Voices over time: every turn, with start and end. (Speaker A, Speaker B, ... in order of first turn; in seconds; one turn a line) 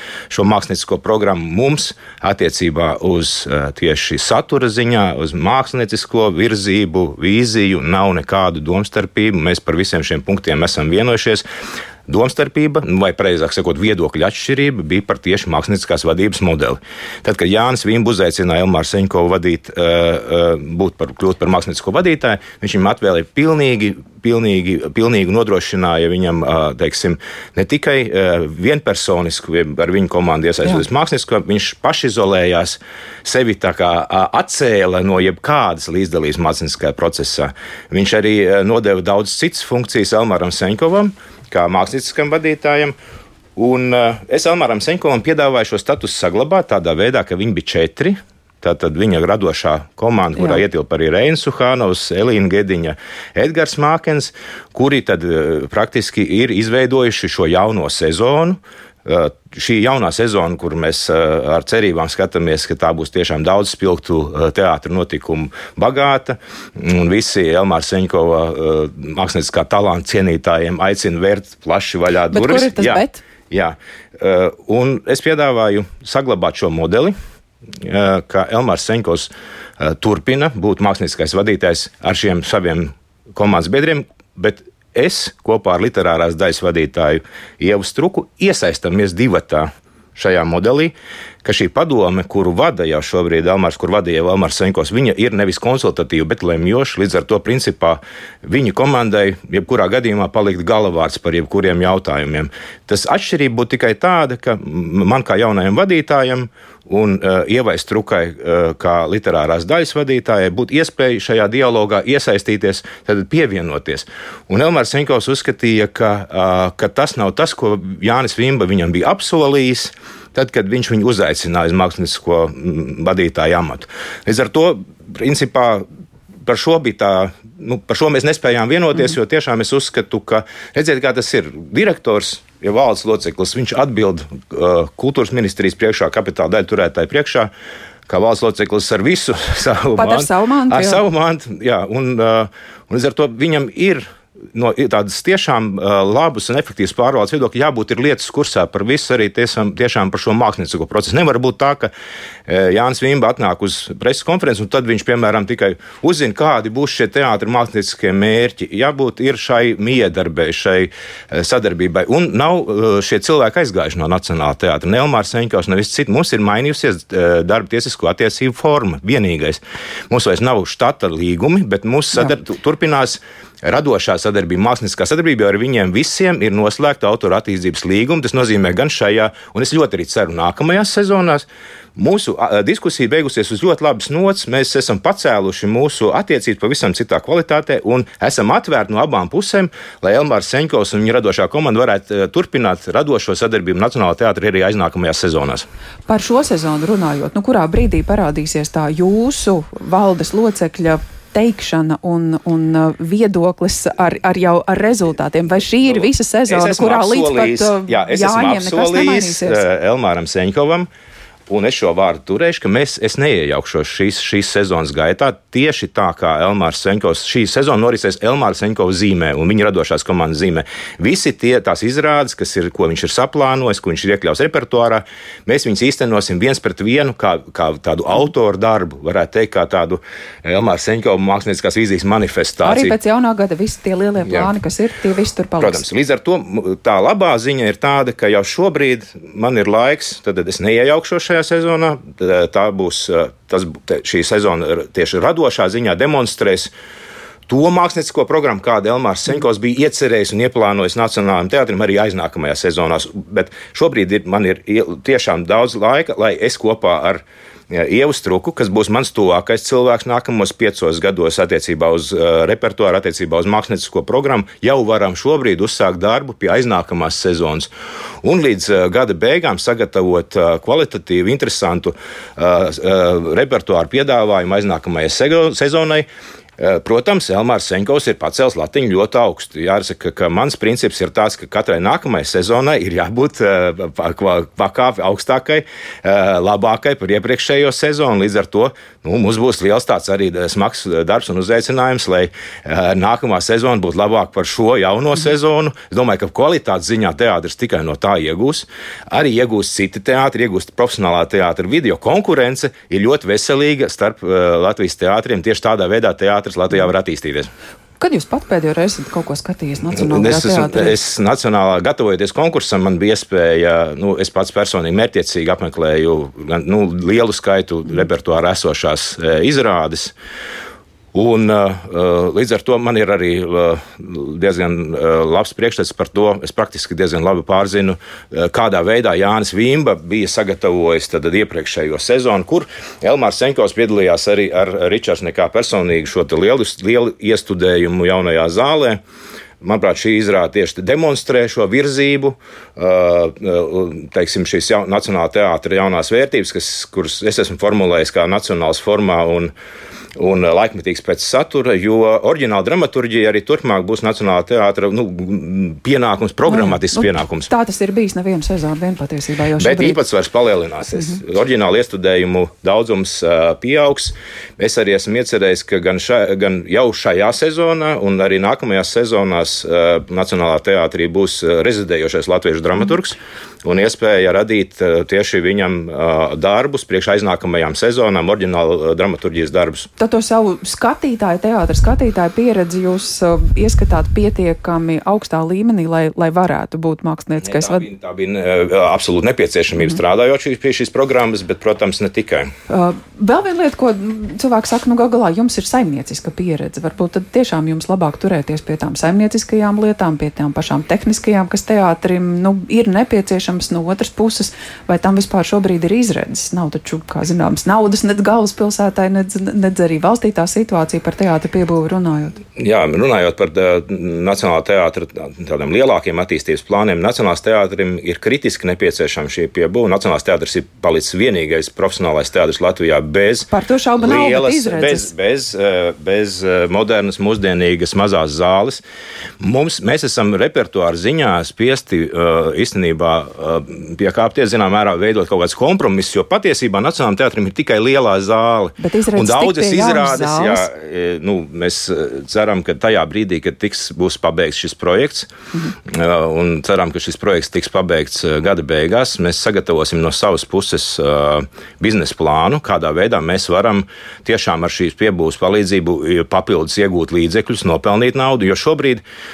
Speaker A: 0.3-11.4
Speaker A: 12.1-43.0
Speaker A: 43.6-77.1
Speaker B: 72.3-73.2
Speaker A: 77.8-125.8
Speaker A: 126.5-137.5
Speaker A: 138.1-151.9
Speaker B: 140.0-141.0
Speaker A: 152.5-195.7
Speaker B: 196.1-209.6
Speaker A: 206.5-210.9
Speaker A: 211.5-232.9
Speaker B: 232.6-235.8
Speaker A: 234.2-234.5
Speaker A: 235.6-246.7
Speaker A: 247.5-267.7
Speaker A: 268.2-276.1
Speaker A: 276.6-307.5
Speaker B: 308.0-311.0
Speaker A: 309.9-320.1
Speaker A: 321.1-339.0
Speaker A: 339.6-349.5
Speaker A: 350.2-357.5
Speaker B: 356.5-360.0
Speaker A: 359.6-379.9
Speaker B: 380.0-387.9
Speaker A: 387.4-392.5
Speaker B: 392.7-412.4
Speaker A: 412.6-428.8
Speaker B: 423.5-425.1
Speaker A: 429.4-445.3
Speaker B: 438.8-440.7
Speaker A: 445.9-459.0